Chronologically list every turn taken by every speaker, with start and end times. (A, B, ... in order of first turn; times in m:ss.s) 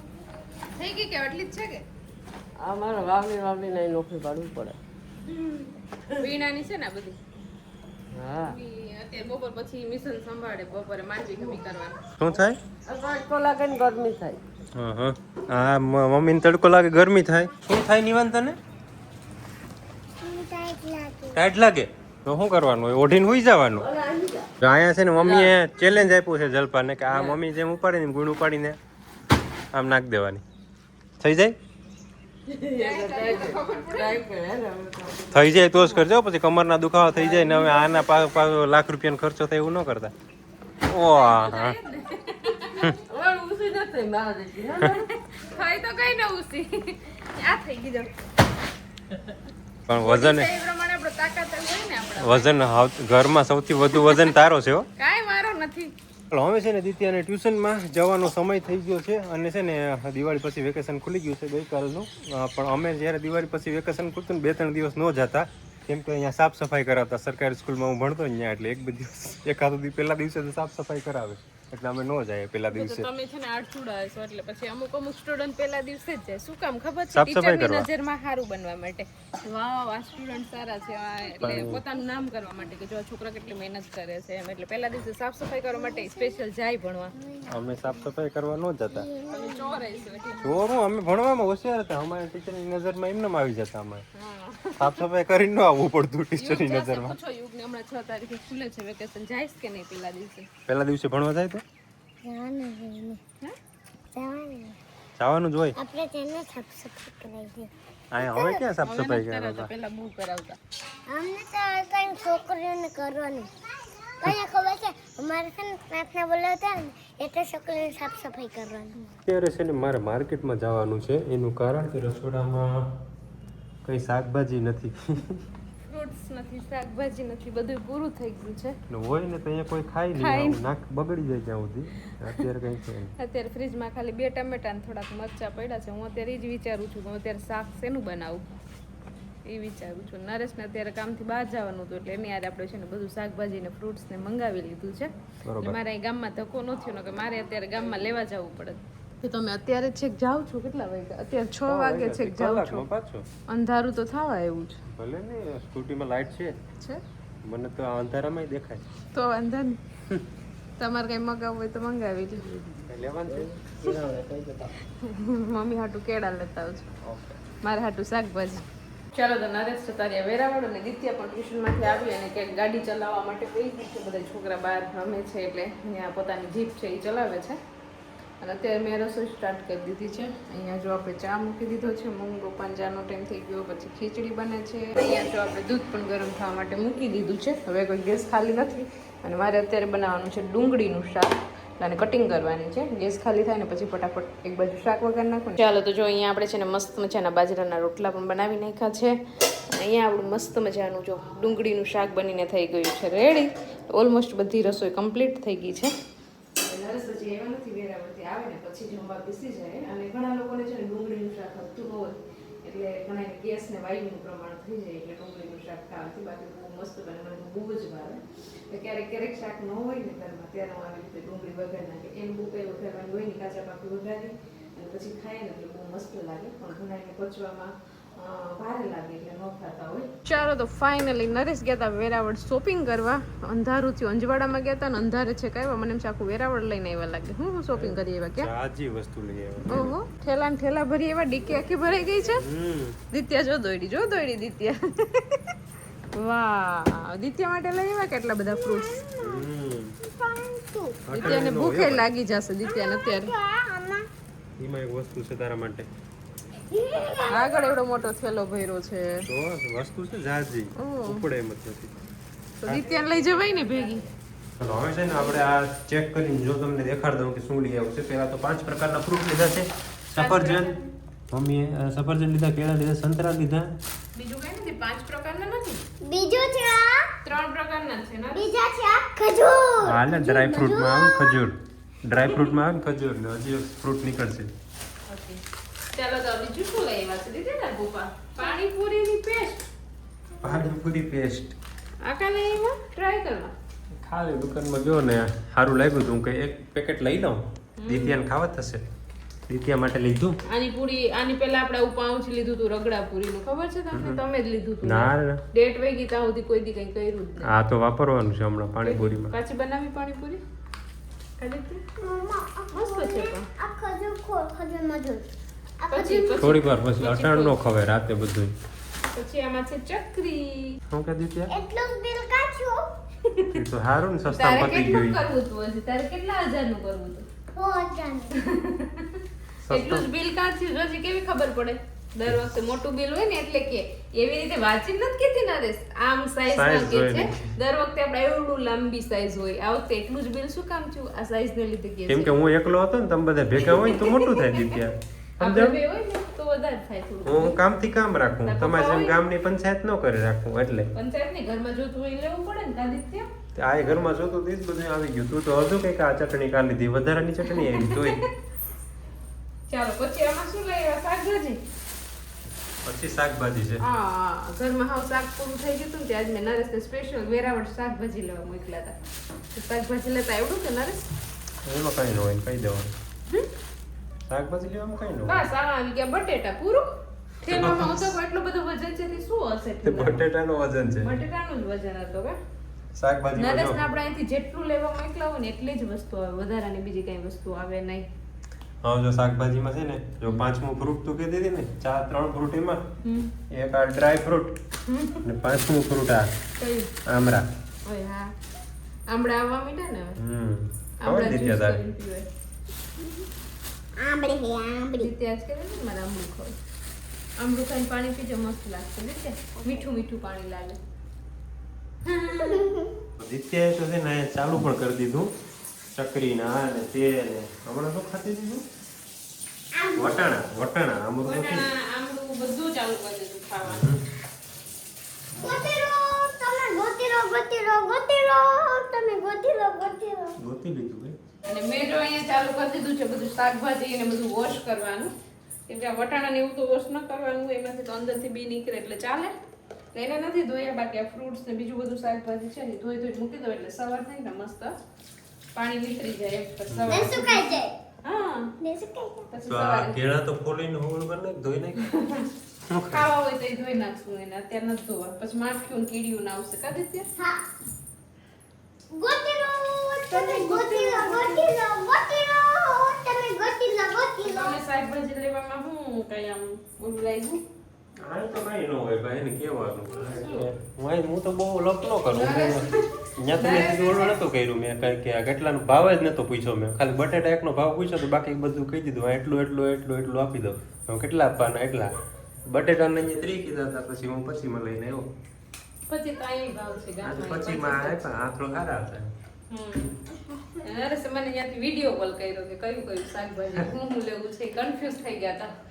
0:00.7-0:01.8 A
0:02.6-0:04.8 B
0:05.2-0:07.2 A
0:08.1-0:08.6 B
0:08.3-0:12.0 A
0:12.2-0:12.6 C
0:12.9-0:14.4 B
0:14.7-0:18.6 C
0:20.2-0:21.4 D
0:21.3-0:23.9 C
0:23.8-0:24.5 B
0:24.6-0:28.8 C
0:25.2-0:25.5 B
0:27.1-0:27.4 B
0:29.7-0:30.4 C
0:31.2-0:31.6 C
0:32.5-0:35.8 B
0:32.7-0:34.2 A
0:35.3-0:40.1 C
0:37.2-0:37.7 B
0:40.8-0:41.8 C
0:40.9-0:43.0 A
0:43.0-0:45.0 B
0:44.8-0:48.2 A
0:49.9-0:50.5 C
0:49.9-0:52.5 A
0:52.2-0:54.9 C
0:55.0-0:55.9 A
0:56.3-1:13.1 C
1:12.7-1:27.1 A
1:17.1-1:17.9 C
1:21.4-1:21.8 C
1:25.9-1:26.4 D
1:27.2-1:27.6 D
1:27.5-1:29.1 C
1:28.9-1:29.7 D
1:29.3-1:30.6 A
1:30.4-1:34.1 C
1:34.2-1:35.0 A
1:34.8-1:37.2 C
1:36.4-1:40.5 A
1:40.7-1:41.6 C
1:42.2-1:43.2 D
1:44.1-1:44.8 D
1:45.2-1:45.8 C
1:45.8-1:47.7 D
1:48.1-1:49.7 C
1:48.2-1:48.6 D
1:48.8-1:50.6 A
1:51.1-1:59.0 D
1:59.2-2:02.9 C
2:03.8-2:05.4 C
2:05.9-2:08.8 A
2:08.9-2:13.1 C
2:10.2-2:10.6 A
2:13.2-2:18.5 A
2:19.4-2:32.8 A
2:25.4-2:25.8 C
2:31.7-2:33.3 C
2:33.5-2:34.8 A
2:34.9-2:36.6 C
2:37.4-2:38.8 C
2:39.1-2:39.8 A
2:40.8-2:42.8 A
2:42.9-2:44.8 C
2:44.9-2:46.9 A
2:47.0-2:47.4 C
2:47.6-2:57.6 A
2:58.4-3:25.9 A
3:26.6-3:58.5 A
3:57.7-4:00.0 C
3:59.7-4:02.4 A
4:02.4-4:03.0 C
4:03.1-4:05.6 A
4:06.1-4:09.0 A
4:08.5-4:09.4 D
4:09.2-4:10.0 C
4:10.0-4:11.0 D
4:11.0-4:12.1 C
4:11.1-4:13.3 A
4:12.6-4:14.1 D
4:14.6-4:15.9 C
4:16.7-4:17.6 D
4:17.3-4:19.3 A
4:19.3-4:21.9 C
4:20.8-4:21.2 A
4:22.6-4:24.1 A
4:22.6-4:23.0 C
4:24.6-4:30.8 C
4:30.2-4:30.9 A
4:31.3-4:33.8 C
4:34.2-4:35.8 A
4:36.0-4:37.1 D
4:37.2-4:38.5 A
4:38.3-4:41.5 D
4:39.8-4:44.5 C
4:45.1-4:45.4 A
4:45.9-4:49.6 A
4:50.4-4:51.5 C
4:52.0-4:53.5 A
4:53.9-4:58.8 C
4:57.8-4:58.2 A
4:59.5-5:00.4 C
5:00.5-5:07.5 A
5:03.9-5:04.2 C
5:04.8-5:05.4 C
5:07.4-5:09.4 C
5:08.8-5:10.4 A
5:11.4-5:11.8 A
5:12.0-5:15.3 D
5:12.7-5:13.5 A
5:15.8-5:16.4 D
5:15.9-5:17.6 A
5:16.4-5:18.6 C
5:19.1-5:20.8 A
5:20.9-5:21.5 C
5:21.5-5:22.9 D
5:23.2-5:23.6 A
5:23.5-5:25.2 C
5:24.3-5:27.3 A
5:27.6-5:28.4 D
5:28.3-5:42.4 A
5:29.6-5:30.1 C
5:36.5-5:37.6 C
5:42.1-5:45.8 C
5:43.6-5:44.8 A
5:45.4-5:47.6 A
5:47.2-5:50.9 C
5:48.4-5:49.2 A
5:50.9-5:53.3 A
5:53.6-5:58.2 C
5:57.5-5:58.3 A
5:59.7-6:01.6 A
6:02.8-6:03.8 C
6:03.8-6:09.0 A
6:09.5-6:11.1 A
6:11.6-6:12.9 C
6:14.3-6:15.5 C
6:15.2-6:16.9 A
6:17.4-6:18.2 C
6:17.4-6:20.3 A
6:19.8-6:21.2 C
6:21.0-6:22.4 A
6:23.0-6:23.8 C
6:23.4-6:28.1 A
6:28.8-6:32.8 C
6:33.0-6:33.3 A
6:33.5-6:34.6 C
6:34.9-6:35.3 A
6:35.2-6:36.3 C
6:36.6-6:36.9 A
6:37.0-6:37.5 C
6:37.8-6:38.4 A
6:39.1-6:40.2 A
6:40.2-6:41.8 C
6:41.0-6:42.3 A
6:44.0-6:45.1 D
6:44.9-6:46.5 A
6:47.4-6:50.8 A
6:52.0-6:52.7 A
6:52.3-6:53.0 D
6:53.2-6:55.3 C
6:55.9-6:58.6 C
6:59.7-7:00.2 D
7:00.0-7:01.7 C
7:01.2-7:03.9 A
7:03.6-7:04.0 C
7:05.4-7:05.7 C
7:05.4-7:10.4 D
7:10.4-7:11.2 C
7:11.5-7:15.1 A
7:15.7-7:19.3 A
7:19.9-7:24.7 A
7:25.5-7:27.5 A
7:26.7-7:27.2 C
7:26.9-7:27.8 D
7:28.0-7:28.6 A
7:28.6-7:29.3 D
7:29.3-7:30.0 A
7:29.4-7:31.9 C
7:31.8-7:32.3 A
7:32.7-7:33.1 C
7:32.9-7:37.1 A
7:37.2-7:37.4 D
7:38.9-7:44.6 D
7:40.1-7:41.5 A
7:44.2-7:47.4 A
7:48.0-8:05.1 C
7:50.2-7:50.5 A
7:52.1-7:54.2 A
8:05.9-8:08.0 A
8:07.0-8:09.1 C
8:09.5-8:09.9 A
8:10.6-8:15.5 A